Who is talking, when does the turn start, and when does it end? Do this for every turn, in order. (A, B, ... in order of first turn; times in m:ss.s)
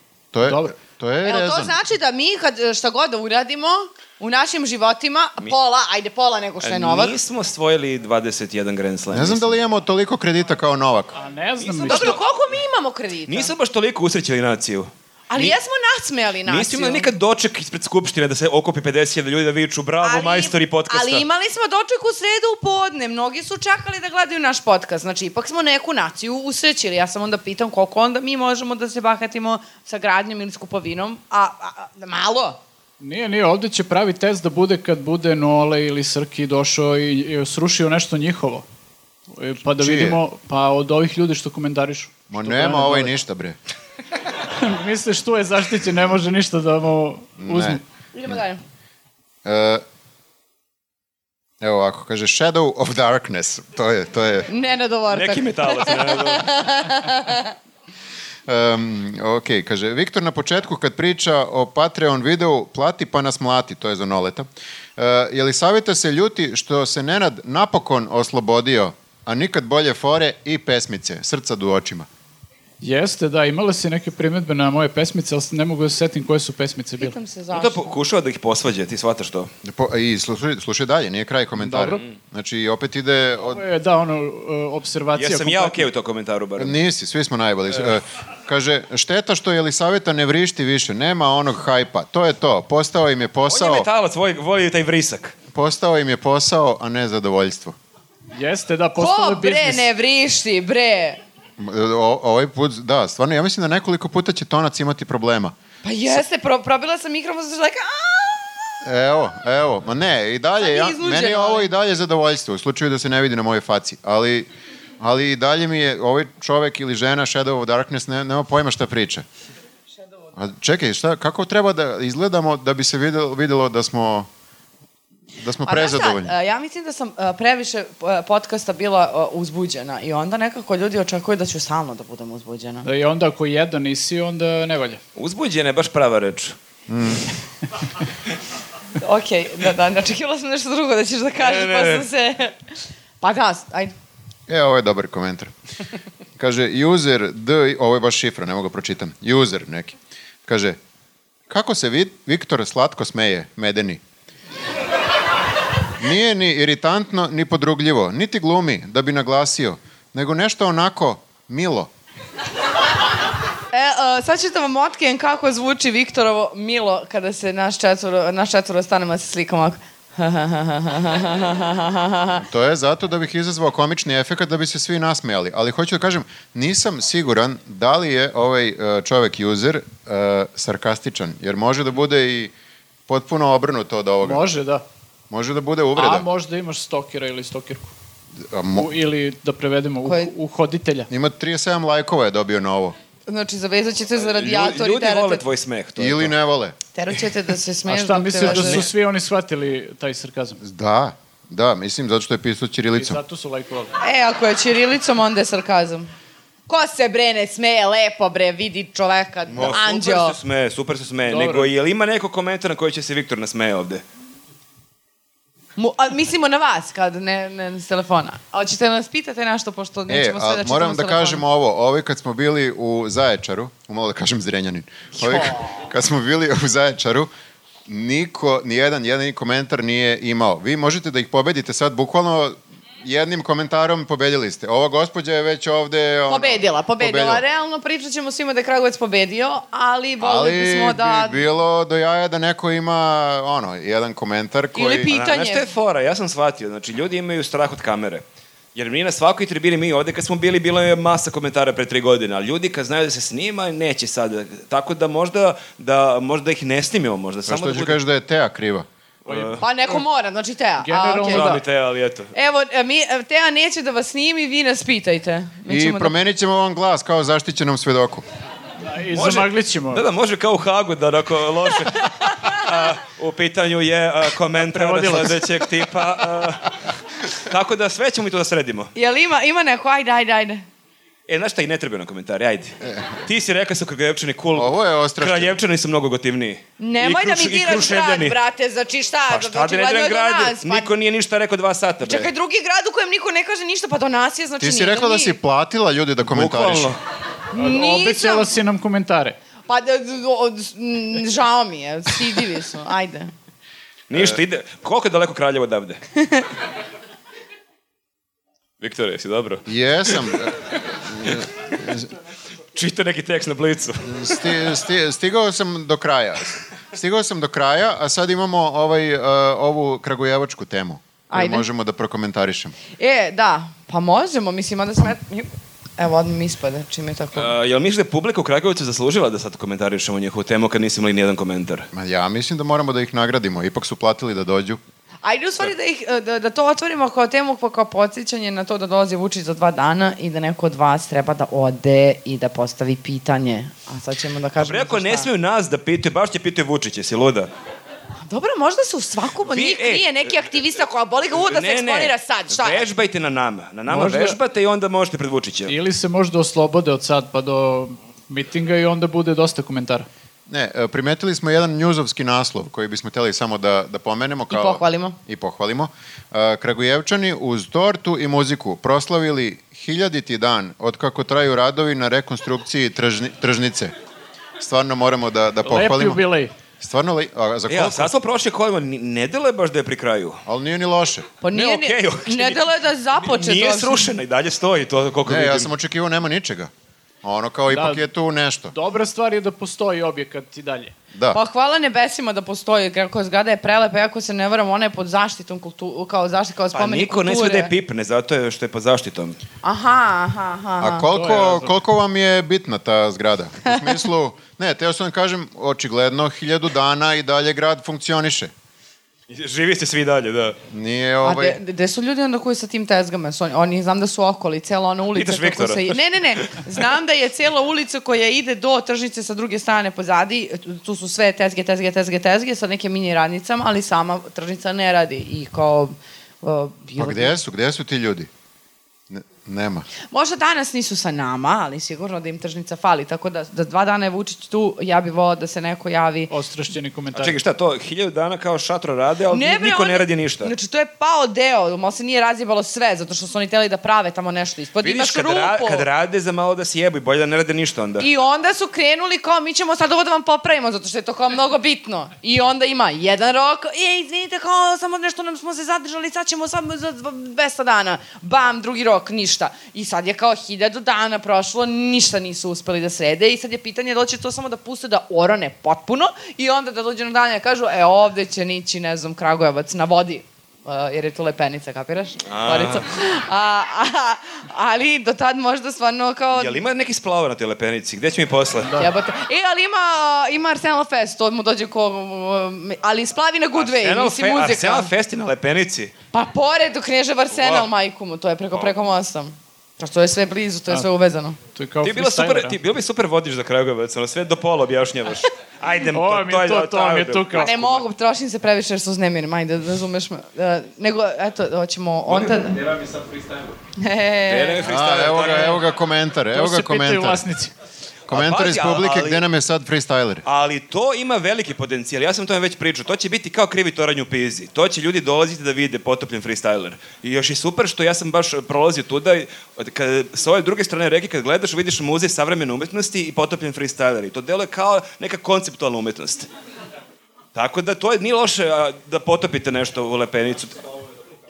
0:00.3-0:01.8 A
0:00.4-0:00.7 B
0:01.2-0:07.1 C
0:06.6-0:09.6 D
0:09.1-0:11.2 A
0:11.1-0:12.2 B
0:11.6-0:12.2 D
0:11.9-0:13.5 C
0:13.3-0:15.6 D
0:15.3-0:17.1 C
0:16.5-0:21.2 D
0:20.0-0:32.6 C
0:33.0-0:38.6 B
0:39.3-0:43.1 B
0:39.8-0:40.2 A
0:42.3-0:43.6 A
0:44.5-0:47.8 B
0:47.4-0:48.3 A
0:48.1-0:48.6 C
0:49.4-0:49.8 A
0:51.6-0:54.5 A
0:54.5-0:57.5 C
0:55.1-0:56.6 D
0:58.5-1:04.4 A
1:05.0-1:12.1 A
1:12.8-1:17.1 B
1:17.0-1:17.8 C
1:17.5-1:19.5 D
1:19.6-1:23.6 A
1:21.6-1:22.0 B
1:23.4-1:25.9 B
1:25.1-1:26.8 D
1:26.6-1:33.9 A
1:33.5-1:35.3 D
1:35.5-1:37.7 A
1:38.3-1:39.9 B
1:39.0-1:41.2 C
1:41.6-1:45.5 A
1:45.8-1:48.6 C
1:48.8-1:59.2 A
1:50.6-1:51.7 C
2:00.4-2:04.3 A
2:05.4-2:06.3 A
2:05.6-2:12.9 C
2:12.8-2:15.0 B
2:15.2-2:16.6 D
2:16.9-2:17.3 A
2:19.0-2:22.6 C
2:21.4-2:22.1 D
2:23.2-2:23.9 C
2:24.5-2:25.5 A
2:26.4-2:30.8 A
2:31.5-2:34.0 A
2:36.0-2:41.9 A
2:43.7-2:52.4 C
2:52.4-3:02.5 A
3:03.1-3:04.4 A
3:04.2-3:04.8 B
3:05.3-3:06.3 A
3:06.0-3:07.9 B
3:08.5-3:08.9 A
3:08.7-3:11.1 B
3:10.0-3:10.3 C
3:11.1-3:13.0 A
3:13.3-3:15.4 C
3:14.2-3:16.3 D
3:16.0-3:16.8 A
3:16.9-3:18.9 C
3:17.8-3:20.6 B
3:20.6-3:23.2 A
3:22.9-3:23.9 B
3:24.0-3:26.1 C
3:26.7-3:30.4 C
3:29.5-3:34.0 D
3:29.5-3:29.8 A
3:31.3-3:31.7 B
3:35.8-3:41.4 C
3:40.1-3:47.3 A
3:45.2-3:45.7 C
3:47.9-3:57.4 A
3:56.3-4:01.4 C
4:00.2-4:05.1 A
4:04.7-4:05.7 C
4:05.1-4:08.2 D
4:08.7-4:18.0 D
4:17.4-4:18.8 A
4:19.2-4:19.6 D
4:19.3-4:20.0 B
4:19.6-4:21.6 C
4:20.8-4:21.6 B
4:21.3-4:22.3 D
4:22.3-4:26.1 C
4:25.6-4:28.2 A
4:28.8-4:30.0 B
4:29.1-4:38.9 D
4:32.2-4:32.6 C
4:34.6-4:35.4 B
4:38.9-4:40.6 C
4:41.3-4:48.4 D
4:44.5-4:45.6 A
4:46.8-4:50.9 C
4:49.3-4:52.3 D
4:52.0-4:55.4 C
4:54.6-4:56.9 A
4:56.2-4:57.0 D
4:57.5-4:58.5 C
4:57.6-4:59.4 B
4:59.7-5:03.3 C
5:04.1-5:06.0 D
5:04.1-5:04.4 A
5:08.8-5:10.5 D
5:09.6-5:10.5 A
5:11.1-5:12.1 A
5:12.7-5:14.2 D
5:14.0-5:22.8 A
5:21.3-5:21.6 C
5:23.0-5:27.5 C
5:27.3-5:31.9 D
5:31.9-5:34.8 A
5:35.2-5:45.3 C
5:44.6-5:47.5 D
5:48.2-5:52.8 C
5:49.4-5:50.3 D
5:51.3-5:55.8 D
5:53.9-5:54.4 B
5:55.7-6:00.1 B
6:00.5-6:13.9 A
6:04.5-6:05.2 C
6:14.6-6:16.2 A
6:15.6-6:16.5 B
6:16.8-6:18.1 A
6:17.7-6:20.4 D
6:20.4-6:21.3 A
6:21.4-6:24.1 C
6:21.5-6:22.6 D
6:23.1-6:25.7 D
6:25.2-6:26.7 A
6:27.2-6:28.7 A
6:27.7-6:28.0 B
6:28.7-6:30.9 B
6:31.1-6:31.4 A
6:31.3-6:37.7 C
6:36.7-6:39.4 D
6:39.6-6:41.1 C
6:40.8-6:48.5 A
6:41.1-6:41.8 B
6:43.6-6:43.9 C
6:49.3-6:50.6 D
6:50.7-6:51.6 A
6:51.2-7:07.4 C
6:55.1-6:56.6 D
7:07.0-7:08.3 A
7:09.1-7:09.9 A
7:10.1-7:16.3 C
7:16.3-7:17.4 B
7:17.1-7:20.5 D
7:19.3-7:25.9 C
7:24.8-7:28.1 D
7:28.0-7:56.6 C
7:52.2-7:52.8 D
7:56.3-7:58.8 D
7:58.8-8:04.9 C
8:03.6-8:05.9 D
8:06.1-8:11.4 C
8:07.3-8:07.7 D
8:11.5-8:12.6 B
8:11.8-8:17.8 D
8:15.9-8:17.5 B
8:17.3-8:22.6 C
8:22.1-8:23.6 D
8:23.8-8:24.6 C
8:24.3-8:25.6 D
8:24.6-8:27.3 A
8:26.3-8:27.5 B
8:28.1-8:30.2 A
8:28.1-8:29.2 D
8:30.2-8:46.3 D
8:47.3-8:50.6 D